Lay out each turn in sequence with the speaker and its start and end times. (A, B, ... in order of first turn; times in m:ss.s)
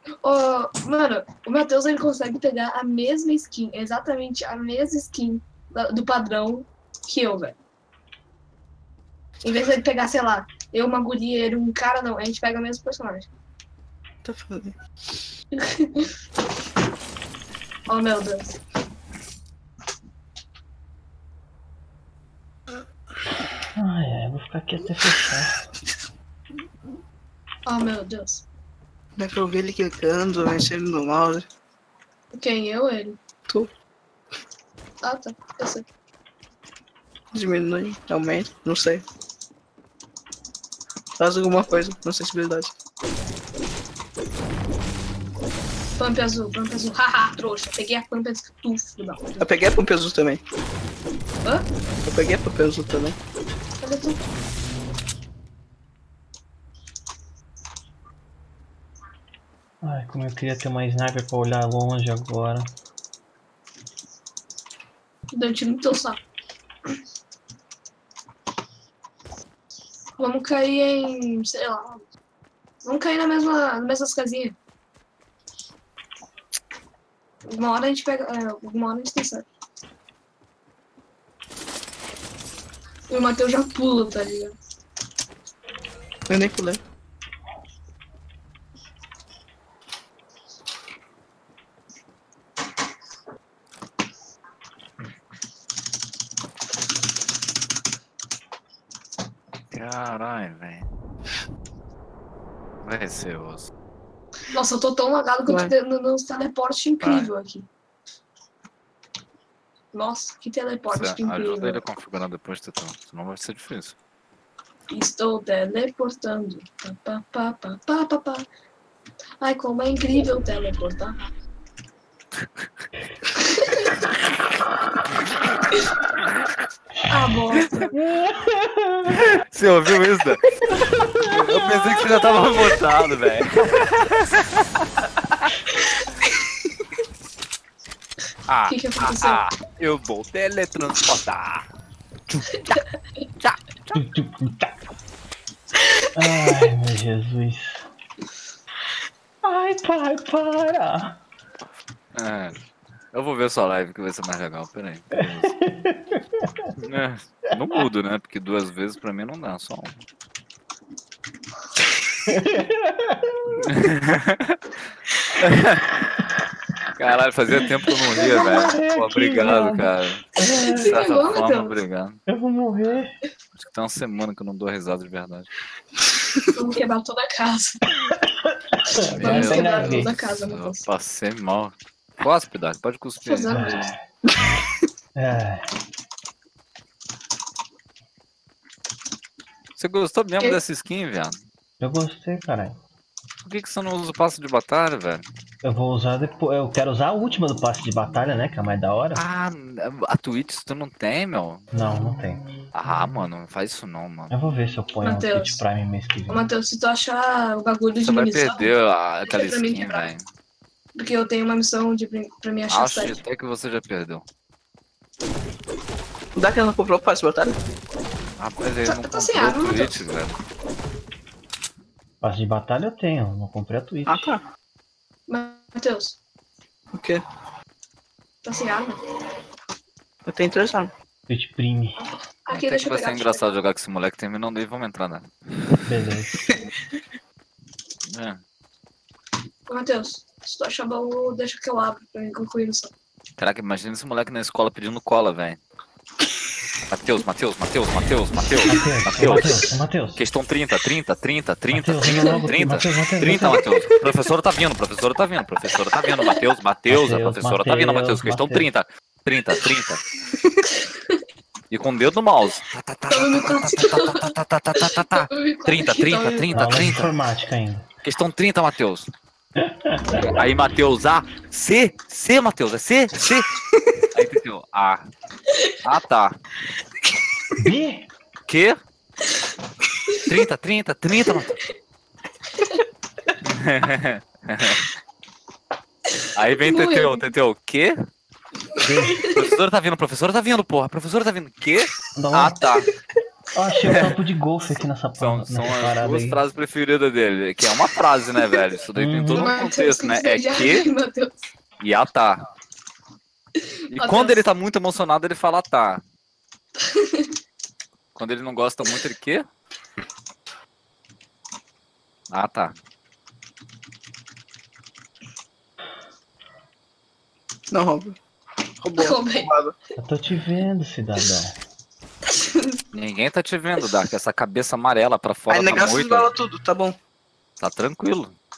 0:00.2-0:07.5 A
0:09.4-0:13.3 A
0:14.2-0:14.8 B
0:15.5-0:16.1 A
0:17.9-0:18.6 A
0:23.7-0:25.7 C
0:27.6-0:28.4 A
0:29.2-0:31.5 B
0:32.3-0:33.2 A
0:35.0-0:35.8 A
0:37.3-0:39.0 B
0:41.2-0:42.7 B
0:46.0-0:49.5 A
0:49.4-0:50.4 B
0:52.0-0:53.2 B
0:53.8-0:54.2 A
0:59.8-1:02.7 C
1:05.3-1:06.2 A
1:10.2-1:12.0 A
1:12.8-1:14.6 A
1:17.5-1:19.4 A
1:23.1-1:24.5 A
1:26.3-1:26.8 B
1:39.7-1:40.9 D
1:42.8-1:43.7 D
1:44.5-1:47.6 A
1:47.0-1:47.3 D
1:49.9-1:51.8 A
1:50.9-1:53.9 D
1:54.9-1:58.4 A
1:59.4-2:01.3 A
2:03.4-2:03.8 A
2:07.1-2:08.0 A
2:07.9-2:09.1 C
2:09.1-2:10.4 D
2:10.8-2:12.2 C
2:11.3-2:14.8 D
2:18.5-2:21.7 D
2:18.7-2:19.4 A
2:22.3-2:22.8 D
2:23.4-2:24.1 D
2:23.9-2:24.7 C
2:26.1-2:27.9 C
2:29.4-2:31.2 C
2:32.1-2:32.5 D
2:33.1-2:35.5 D
2:35.2-2:36.7 C
2:36.8-2:39.9 D
2:42.3-2:43.7 C
2:43.6-2:44.6 D
2:45.4-2:45.9 D
2:47.0-2:52.2 D
2:48.2-2:51.0 C
2:50.4-2:51.8 A
2:52.3-2:53.1 C
2:53.6-2:55.5 D
2:56.5-2:57.8 A
2:58.1-3:00.1 C
2:59.0-3:03.9 D
2:59.2-3:00.8 A
3:03.2-3:03.9 A
3:03.5-3:04.0 C
3:05.1-3:05.7 C
3:09.8-3:11.4 D
3:11.8-3:12.8 C
3:13.4-3:15.2 D
3:15.6-3:19.2 C
3:19.1-3:21.6 D
3:21.7-3:22.4 C
3:22.7-3:24.3 D
3:24.3-3:26.4 C
3:25.0-3:25.6 A
3:26.3-3:28.7 A
3:28.0-3:30.2 D
3:29.3-3:30.0 A
3:30.9-3:33.2 A
3:32.7-3:34.2 D
3:36.3-3:37.6 B
3:38.4-3:40.4 D
3:38.8-3:40.0 A
3:42.2-3:44.4 C
3:44.1-3:44.4 B
3:45.3-3:46.2 A
3:46.9-3:47.2 B
3:48.4-3:49.0 A
3:50.2-3:50.9 B
3:51.3-3:52.0 C
3:52.0-3:53.5 A
3:52.5-3:55.3 D
3:55.8-3:56.3 C
3:58.1-3:58.4 D
3:59.7-4:02.9 A
4:03.4-4:05.6 D
4:06.9-4:20.0 D
4:08.7-4:10.2 C
4:11.7-4:13.6 C
4:12.1-4:12.5 A
4:16.9-4:18.7 C
4:21.7-4:27.1 D
4:23.1-4:26.6 A
4:26.5-4:27.8 C
4:28.0-4:29.1 D
4:29.6-4:30.3 C
4:30.1-4:33.5 D
4:34.1-4:35.1 D
4:35.8-4:36.4 D
4:37.6-4:38.1 C
4:38.5-4:38.8 D
4:40.2-4:41.6 D
4:42.6-4:42.8 A
4:43.4-4:44.8 D
4:46.3-4:48.0 D
4:46.6-4:47.2 A
4:48.8-4:49.3 C
4:49.0-4:49.4 A
4:49.3-4:52.9 D
4:52.2-4:52.6 C
4:53.5-4:56.4 C
4:53.8-4:54.1 D
4:55.2-5:00.9 D
4:58.9-4:59.5 C
4:59.4-5:01.3 A
5:01.8-5:02.4 D
5:03.9-5:06.0 D
5:04.0-5:04.4 A
5:06.8-5:07.3 A
5:08.1-5:09.5 D
5:12.3-5:12.7 D
5:17.7-5:18.2 B
5:18.8-5:19.7 B
5:19.0-5:19.5 A
5:20.0-5:21.6 C
5:22.4-5:22.8 A
5:22.9-5:26.3 D
5:25.5-5:27.0 B
5:27.6-5:28.3 D